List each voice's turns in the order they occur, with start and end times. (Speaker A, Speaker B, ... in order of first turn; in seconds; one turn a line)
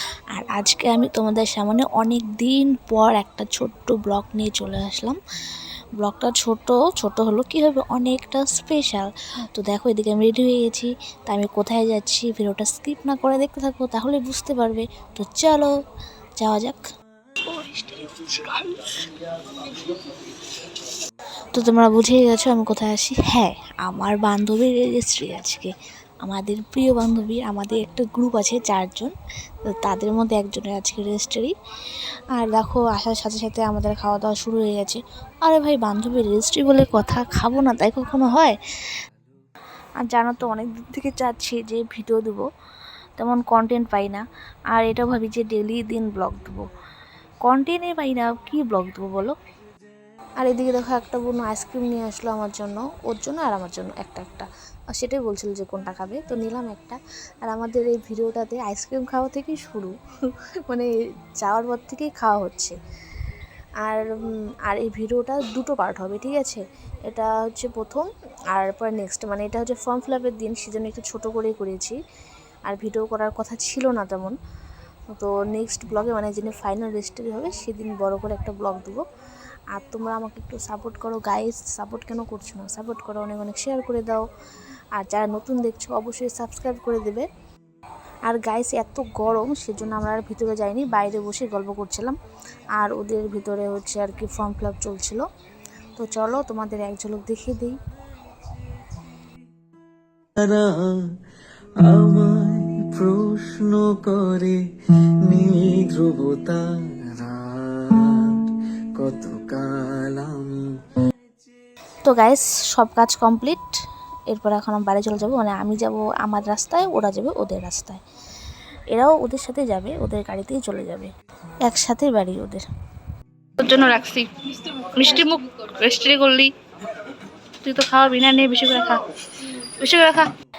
Speaker A: 0.3-5.2
Speaker A: 6.0-15.7
Speaker A: 16.4-16.8
Speaker B: 17.5-19.1
Speaker A: 21.5-29.1
Speaker A: 29.7-31.5
Speaker A: 32.3-38.6
Speaker A: 40.0-42.5
Speaker A: 43.2-46.7
Speaker A: 47.5-49.4
Speaker A: 50.4-59.9
Speaker A: 61.4-62.8
Speaker A: 63.8-72.0
Speaker A: 72.7-74.3
Speaker A: 75.1-79.0
Speaker A: 79.7-84.2
Speaker A: 85.0-87.3
Speaker A: 88.3-92.2
Speaker A: 92.8-95.2
Speaker A: 96.0-97.8
Speaker C: 100.4-101.0
Speaker C: 101.8-104.6
Speaker C: 105.3-110.6
Speaker A: 112.1-113.7
Speaker A: 114.3-118.0
Speaker A: 118.9-121.1
Speaker A: 121.7-122.7
Speaker B: 123.6-126.5
Speaker B: 127.6-130.3